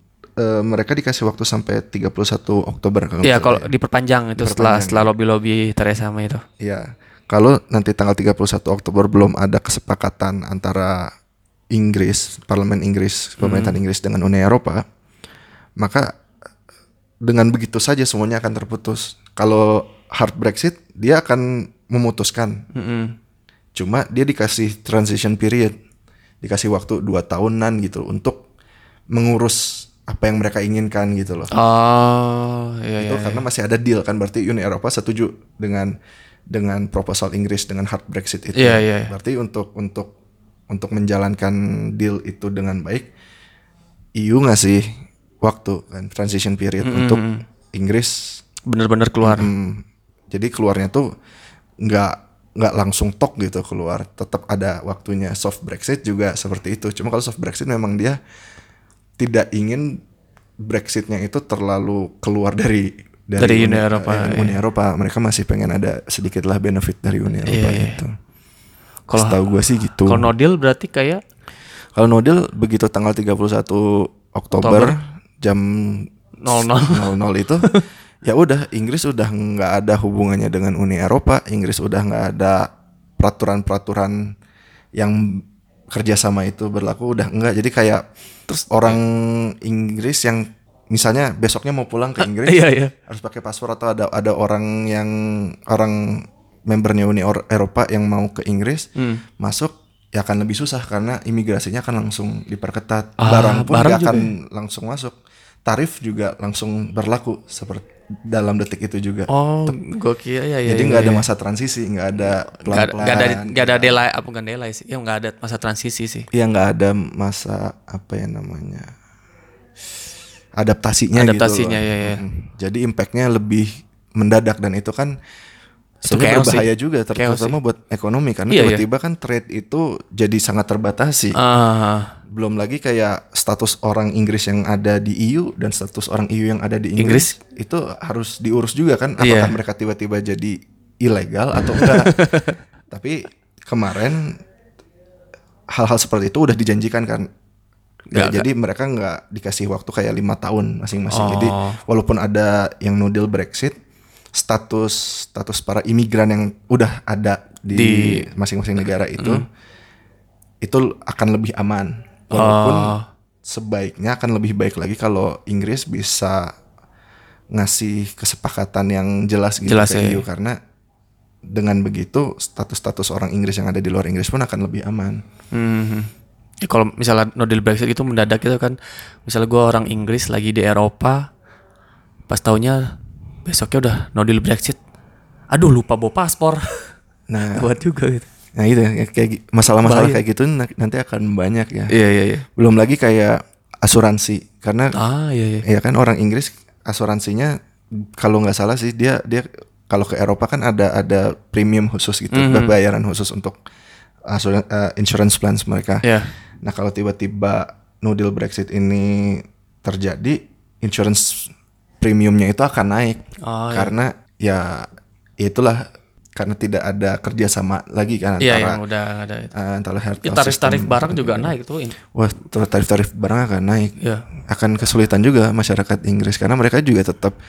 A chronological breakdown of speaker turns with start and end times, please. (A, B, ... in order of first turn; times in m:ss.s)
0:00.4-0:03.7 A
0:03.2-0:06.4 B
0:04.4-0:05.1 A
0:06.6-0:11.1 A
0:11.7-0:14.8 A
0:13.4-0:13.8 B
0:15.8-0:16.1 A
0:17.2-0:22.6 A
0:22.7-0:23.1 B
0:23.8-0:25.7 A
0:26.4-0:28.4 A
0:29.1-0:31.5 A
0:31.5-0:33.4 B
0:33.0-0:35.9 A
0:36.5-0:40.1 A
0:38.6-0:39.1 B
0:40.7-0:43.1 A
0:44.2-0:44.9 A
0:45.4-0:48.4 A
0:46.8-0:47.4 B
0:48.7-0:49.5 B
0:49.2-0:51.1 A
0:51.8-0:58.2 A
0:59.2-1:00.0 A
1:00.6-1:08.1 A
1:03.4-1:04.6 B
1:07.5-1:08.0 B
1:09.1-1:09.5 B
1:09.2-1:10.3 A
1:10.0-1:11.2 B
1:12.0-1:17.7 A
1:14.6-1:15.0 B
1:16.4-1:17.1 B
1:18.2-1:24.3 A
1:25.0-1:28.0 A
1:28.5-1:29.0 B
1:28.7-1:38.9 A
1:32.2-1:32.9 B
1:39.0-1:39.2 B
1:39.4-1:49.8 A
1:43.2-1:44.3 B
1:49.3-1:51.3 B
1:50.7-1:54.0 A
1:52.2-1:56.3 B
1:56.3-1:58.9 A
2:00.6-2:05.2 A
2:01.2-2:02.2 B
2:06.0-2:07.6 B
2:06.1-2:11.4 A
2:08.5-2:08.8 B
2:11.4-2:12.2 B
2:12.3-2:22.2 A
2:17.0-2:17.3 B
2:19.2-2:19.6 B
2:21.6-2:22.6 B
2:22.9-2:24.4 A
2:25.7-2:27.3 A
2:28.1-2:33.8 A
2:28.1-2:28.5 B
2:31.1-2:31.8 B
2:34.4-2:39.4 A
2:37.7-2:38.3 B
2:39.2-2:39.4 B
2:40.6-2:42.9 A
2:42.3-2:43.1 B
2:43.4-2:46.5 A
2:47.5-2:50.6 A
2:49.6-2:50.2 B
2:51.5-2:55.2 A
2:55.5-2:56.1 B
2:56.6-3:01.3 B
3:02.3-3:04.8 B
3:05.5-3:06.7 B
3:07.3-3:07.7 A
3:07.5-3:08.3 B
3:08.6-3:11.9 A
3:09.8-3:10.2 B
3:11.9-3:12.5 B
3:12.6-3:14.9 A
3:14.9-3:15.7 B
3:15.6-3:23.6 A
3:22.3-3:22.8 B
3:24.3-3:26.0 A
3:26.0-3:26.3 B
3:26.6-3:34.9 A
3:33.4-3:33.9 B
3:35.4-3:35.8 A
3:36.4-3:38.8 A
3:38.4-3:39.5 B
3:39.5-3:41.5 A
3:40.2-3:42.0 B
3:42.1-3:47.4 A
3:44.0-3:44.3 B